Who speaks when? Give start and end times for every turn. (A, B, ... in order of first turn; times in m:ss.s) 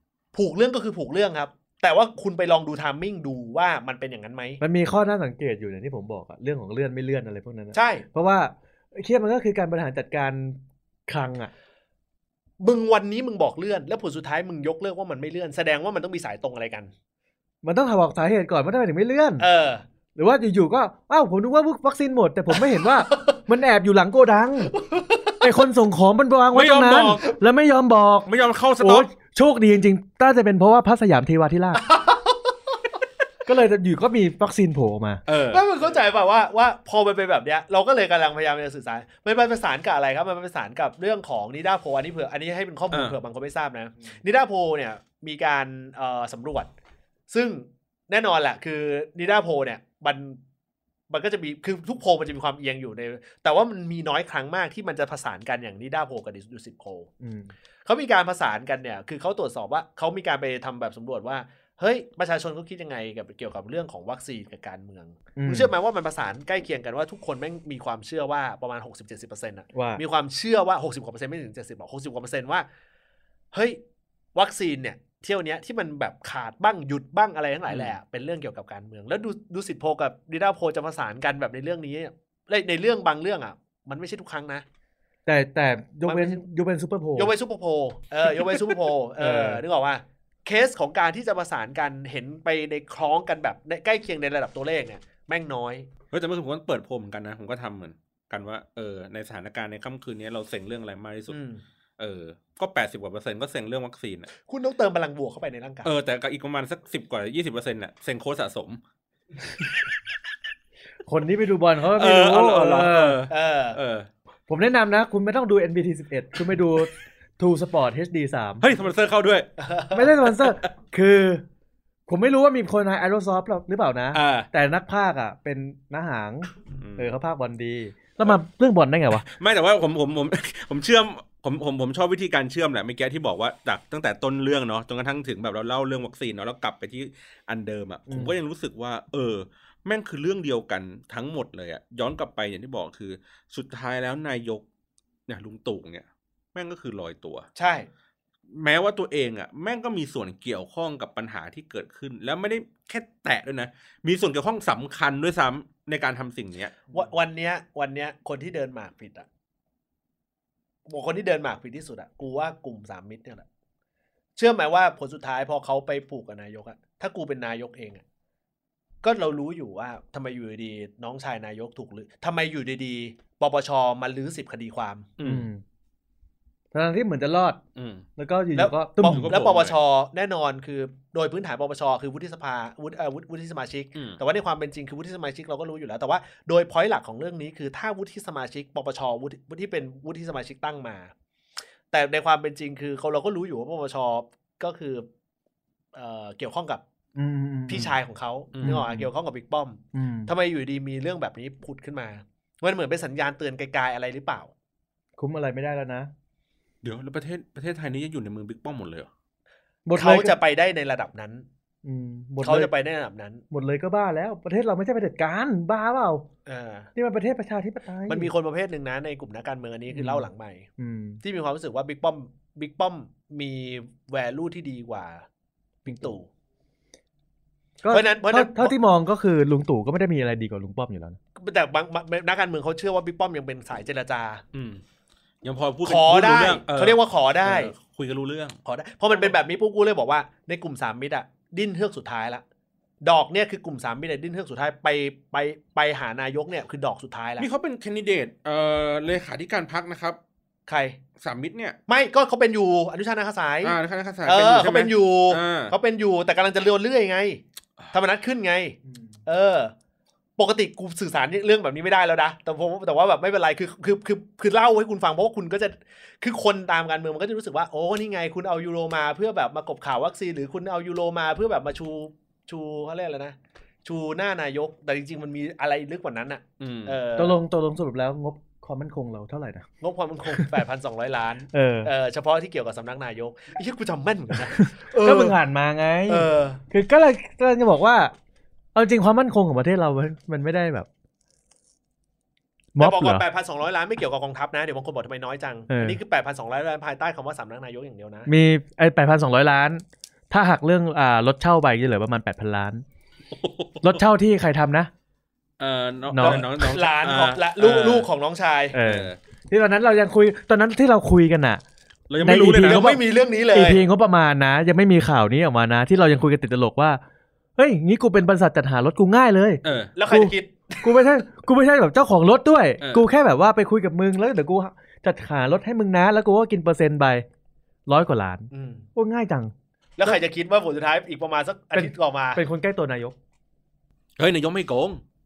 0:00.3-0:04.6 A
0:04.6-0:11.5 B
0:07.7-0:08.0 A
0:12.6-0:16.9 A
0:17.6-0:19.4 B
0:19.4-0:19.8 A
0:20.2-0:24.8 B
0:24.9-0:25.3 A
0:25.4-0:31.9 B
0:26.5-0:27.3 C
0:28.3-0:29.1 C
0:33.4-0:35.2 B
0:35.3-0:35.6 C
0:35.5-0:46.7 A
0:42.9-0:43.2 C
0:47.3-0:50.4 A
0:51.1-0:57.1 A
0:57.2-0:57.5 B
0:57.8-1:12.7 A
1:05.4-1:05.7 B
1:09.7-1:10.0 B
1:13.5-1:13.8 A
1:14.4-1:24.6 A
1:25.3-1:27.3 B
1:26.1-1:26.4 A
1:27.2-1:35.9 A
1:29.2-1:29.6 B
1:36.1-1:41.4 C
1:41.3-1:41.6 A
1:42.0-1:44.3 C
1:44.4-1:45.9 A
1:45.8-1:48.8 C
1:51.1-1:53.2 B
1:51.9-1:54.1 C
1:53.3-1:53.8 A
1:54.5-1:58.7 B
1:58.6-1:59.5 C
1:59.6-2:00.1 A
1:59.9-2:01.4 B
2:02.1-2:09.3 B
2:04.1-2:04.5 C
2:06.8-2:07.1 C
2:09.3-2:24.6 C
2:18.1-2:18.4 B
2:25.3-2:27.5 C
2:27.6-2:27.9 A
2:28.5-2:36.9 C
2:36.9-2:39.3 A
2:40.9-2:43.4 A
2:44.4-2:48.0 A
2:49.0-2:55.1 A
2:55.2-2:55.5 C
2:55.2-2:55.6 B
2:56.7-2:57.6 B
2:57.8-2:58.0 C
2:58.2-2:59.4 B
2:58.6-3:11.1 A
2:59.0-2:59.8 C
3:11.9-3:15.1 A
3:15.9-3:16.8 A
3:17.1-3:17.9 B
3:17.7-3:24.5 A
3:18.5-3:18.8 C
3:18.6-3:19.1 B
3:19.9-3:20.3 B
3:25.2-3:26.1 B
3:26.8-3:29.1 C
3:29.8-3:30.4 B
3:30.0-3:31.5 A
3:31.8-3:32.7 B
3:32.4-3:33.4 A
3:33.5-3:36.3 B
3:36.4-3:36.9 A
3:37.0-3:38.3 B
3:38.1-3:40.7 A
3:39.9-3:41.2 B
3:41.2-3:45.2 A
3:45.8-3:46.3 A
3:47.8-3:51.2 B
3:47.9-3:48.8 A
3:51.4-3:54.4 A
3:54.5-3:54.8 C
3:55.4-3:58.6 C
3:55.8-3:57.7 A
3:58.6-4:02.4 A
4:03.0-4:07.5 A
4:07.4-4:10.2 C
4:10.7-4:11.0 A
4:11.2-4:11.8 C
4:11.9-4:19.7 A
4:13.6-4:15.7 C
4:20.4-4:37.4 A
4:36.6-4:37.0 C
4:37.2-4:39.7 B
4:39.8-4:45.4 A
4:40.3-4:40.6 B
4:41.5-4:41.9 B
4:44.5-4:48.1 B
4:46.1-4:46.6 A
4:48.8-4:50.9 B
4:52.8-4:53.2 B
4:52.8-4:58.3 A
4:55.7-4:56.0 B
4:58.3-5:02.8 B
5:03.3-5:04.0 C
5:03.8-5:04.9 B
5:05.6-5:08.1 C
5:06.1-5:06.4 B
5:06.2-5:08.8 A
5:08.7-5:11.6 B
5:08.8-5:09.2 C
5:12.1-5:12.9 C
5:12.2-5:17.0 B
5:12.5-5:13.9 A
5:17.6-5:27.2 B
5:19.6-5:19.9 C
5:20.0-5:21.0 A
5:27.9-5:29.5 B
5:28.5-5:28.9 A
5:30.0-5:32.4 A
5:31.7-5:33.2 B
5:34.2-5:35.0 C